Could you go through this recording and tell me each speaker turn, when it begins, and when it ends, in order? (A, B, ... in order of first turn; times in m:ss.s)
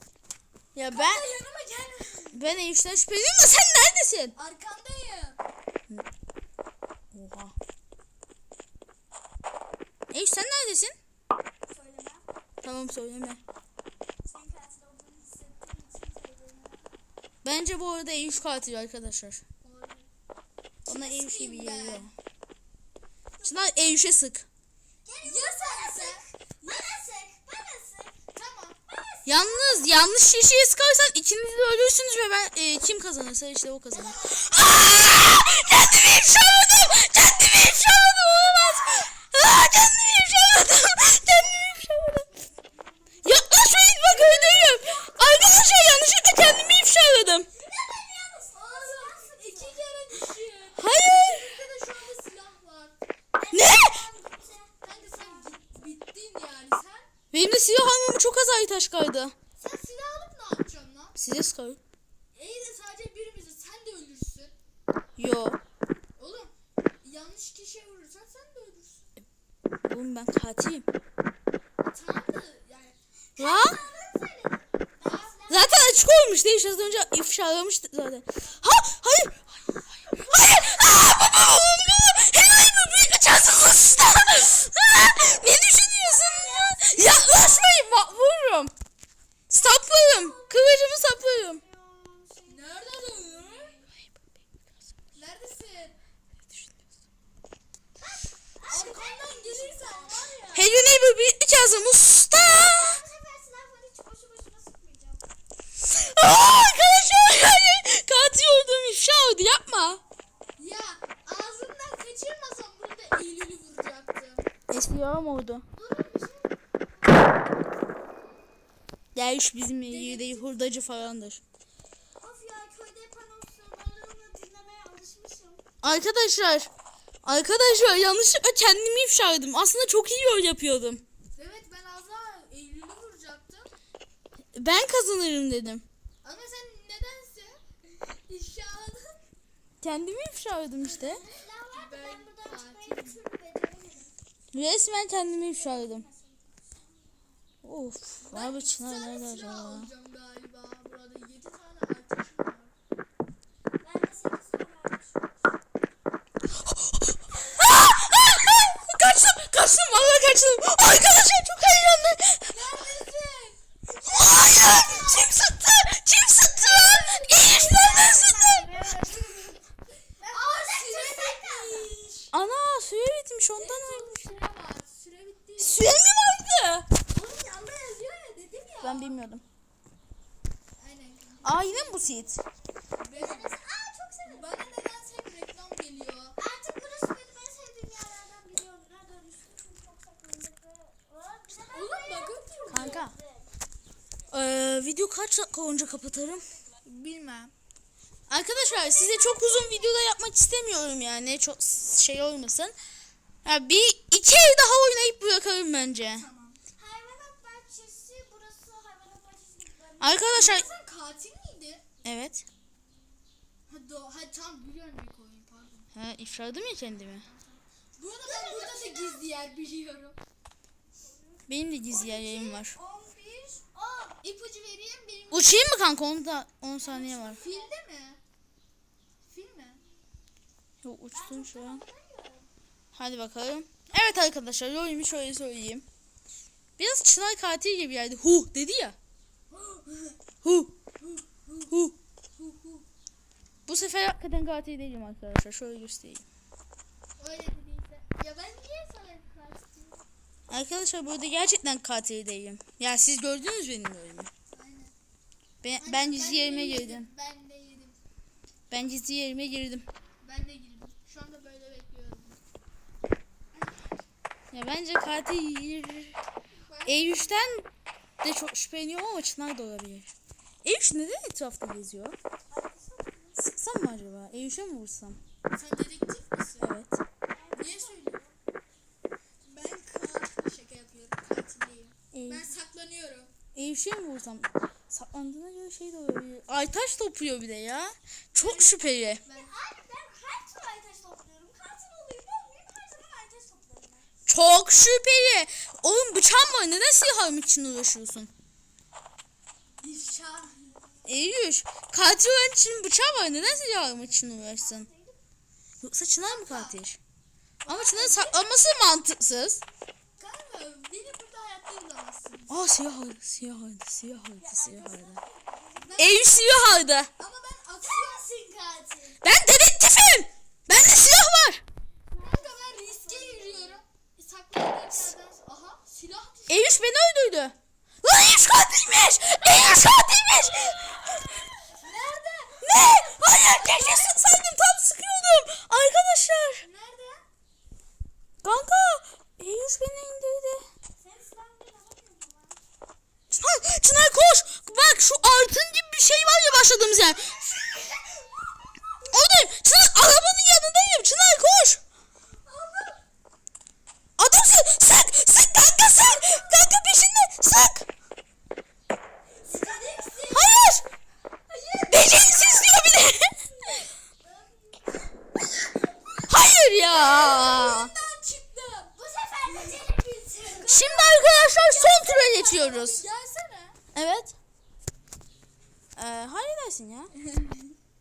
0:00.8-0:01.3 A
0:00.9-0:02.5 B
0:02.3-0:04.4 A
0:04.4-0:05.4 B
0:07.1-0:07.6 A
0:10.1-0:11.0 A
0:11.6-0:12.3 C
0:12.6-0:13.4 A
0:14.2-0:16.9 C
0:17.4-0:19.4 A
0:19.6-0:20.1 B
0:20.8-0:22.1 B
0:20.9-0:22.1 A
0:23.4-0:23.7 C
0:23.4-0:24.5 A
0:25.0-0:28.2 C
0:25.2-0:26.9 B
0:28.4-0:28.8 B
0:28.9-0:30.1 C
0:29.3-0:42.3 A
0:33.9-0:34.7 C
0:42.3-0:43.4 C
0:43.2-0:47.5 A
0:44.5-0:45.4 B
0:47.5-0:49.9 C
0:48.5-0:53.0 B
0:50.8-0:51.5 A
0:53.4-0:55.9 C
0:53.5-0:54.0 A
0:54.8-0:57.1 B
0:57.3-0:59.4 A
0:59.6-1:01.2 B
1:01.2-1:01.8 A
1:02.3-1:04.6 B
1:05.2-1:05.6 A
1:06.2-1:09.1 B
1:09.8-1:10.9 A
1:11.8-1:13.0 B
1:13.4-1:15.8 C
1:13.4-1:13.8 A
1:15.0-1:15.4 B
1:15.5-1:19.5 A
1:20.1-1:28.7 A
1:25.6-1:27.8 C
1:29.5-1:31.6 A
1:29.8-1:33.9 C
1:32.5-1:33.8 B
1:35.1-1:36.0 B
1:38.0-1:40.4 C
1:38.7-1:41.0 B
1:40.5-1:43.0 A
1:42.6-1:45.3 C
1:45.8-1:50.0 A
1:50.6-1:54.5 B
1:54.7-1:55.6 A
1:55.7-1:57.4 C
1:59.2-2:01.4 A
1:59.9-2:01.1 B
2:02.2-2:05.6 C
2:05.8-2:06.7 A
2:07.2-2:11.0 A
2:11.3-2:13.7 B
2:14.5-2:15.8 A
2:16.2-2:19.2 B
2:19.8-2:21.2 A
2:20.8-2:24.1 C
2:21.7-2:23.2 B
2:24.5-2:26.1 A
2:25.4-2:27.3 C
2:27.6-2:29.9 A
2:28.2-2:32.7 B
2:33.8-2:35.5 C
2:36.6-2:42.6 A
2:42.5-2:43.6 B
2:44.0-2:45.3 C
2:44.1-2:49.0 A
2:46.5-2:48.5 B
2:47.4-2:49.3 C
2:50.2-2:52.0 C
2:50.2-2:52.3 B
2:52.3-2:54.4 A
2:53.6-2:55.8 B
2:55.6-2:56.9 A
2:57.1-2:59.2 B
2:58.8-2:59.4 A
3:00.8-3:02.0 B
3:01.4-3:02.4 A
3:02.9-3:03.6 B
3:03.1-3:04.6 C
3:04.3-3:06.4 B
3:06.4-3:13.5 C
3:11.7-3:13.1 B
3:12.7-3:13.2 A
3:14.3-3:16.4 A
3:16.8-3:17.5 B
3:18.3-3:22.7 A
3:18.5-3:20.0 C
3:23.4-3:26.3 A
3:26.1-3:26.6 B
3:26.8-3:30.4 C
3:30.0-3:30.7 A
3:30.2-3:31.8 B
3:32.0-3:32.5 A
3:33.7-3:35.9 B
3:36.0-3:37.2 A
3:37.1-3:40.2 B
3:38.2-3:39.2 C
3:41.0-3:44.2 C
3:41.5-3:42.8 A
3:44.2-3:45.8 B
3:45.3-3:47.4 A
3:46.8-3:47.7 C
3:47.3-3:48.2 B
3:49.3-3:49.8 B
3:50.8-3:51.8 A
3:51.1-3:52.5 C
3:52.9-3:55.8 A
3:53.9-3:54.3 B
3:56.8-3:59.0 A
3:59.5-4:00.2 B
4:00.4-4:00.7 A
4:01.0-4:01.8 B
4:01.7-4:02.0 A
4:02.4-4:02.8 B
4:03.7-4:06.3 A
4:07.2-4:10.0 B
4:10.5-4:14.3 A
4:14.5-4:14.9 B
4:15.6-4:17.1 A
4:15.8-4:18.0 B
4:18.7-4:19.9 A
4:20.2-4:22.4 B
4:24.5-4:26.2 A
4:26.6-4:27.3 B
4:26.8-4:27.7 A
4:28.2-4:30.1 A
4:30.6-4:32.2 A
4:32.5-4:33.4 C
4:33.4-4:35.2 A
4:35.5-4:36.8 B
4:36.6-4:37.0 A
4:37.3-4:38.4 C
4:37.5-4:38.2 B
4:39.4-4:43.3 B
4:42.1-4:42.5 A
4:43.5-4:49.2 A
4:48.3-4:49.5 B
4:49.3-4:54.1 C
4:54.3-4:58.3 A
4:59.8-5:00.8 B
5:01.1-5:04.9 A
5:04.2-5:05.2 C
5:05.8-5:07.0 A
5:06.2-5:06.8 B
5:07.6-5:08.7 B
5:07.7-5:09.6 A
5:10.2-5:12.6 B
5:12.5-5:15.2 A
5:14.4-5:16.2 C
5:15.8-5:16.6 B
5:16.0-5:17.1 A
5:17.2-5:18.3 B
5:17.8-5:19.2 C
5:19.2-5:21.6 A
5:22.1-5:23.8 C
5:22.2-5:26.8 B
5:26.5-5:31.4 A
5:31.7-5:32.8 B
5:32.6-5:36.6 A
5:33.4-5:34.0 B
5:36.6-5:37.2 B
5:38.4-5:40.7 A
5:41.0-5:42.6 C
5:43.3-5:47.3 A
5:47.3-5:49.3 C
5:49.1-5:51.8 A
5:52.3-5:53.0 C
5:54.2-5:57.9 A
5:59.4-6:00.7 C
5:59.4-6:00.5 B
6:00.3-6:00.9 A
6:01.8-6:03.8 A
6:02.1-6:02.6 C
6:04.2-6:05.1 C
6:06.3-6:07.9 A
6:06.9-6:09.0 B
6:09.0-6:11.1 C
6:09.5-6:09.8 B
6:10.6-6:13.0 A
6:10.6-6:13.8 B
6:13.9-6:14.4 A
6:16.0-6:17.1 A
6:17.2-6:17.8 B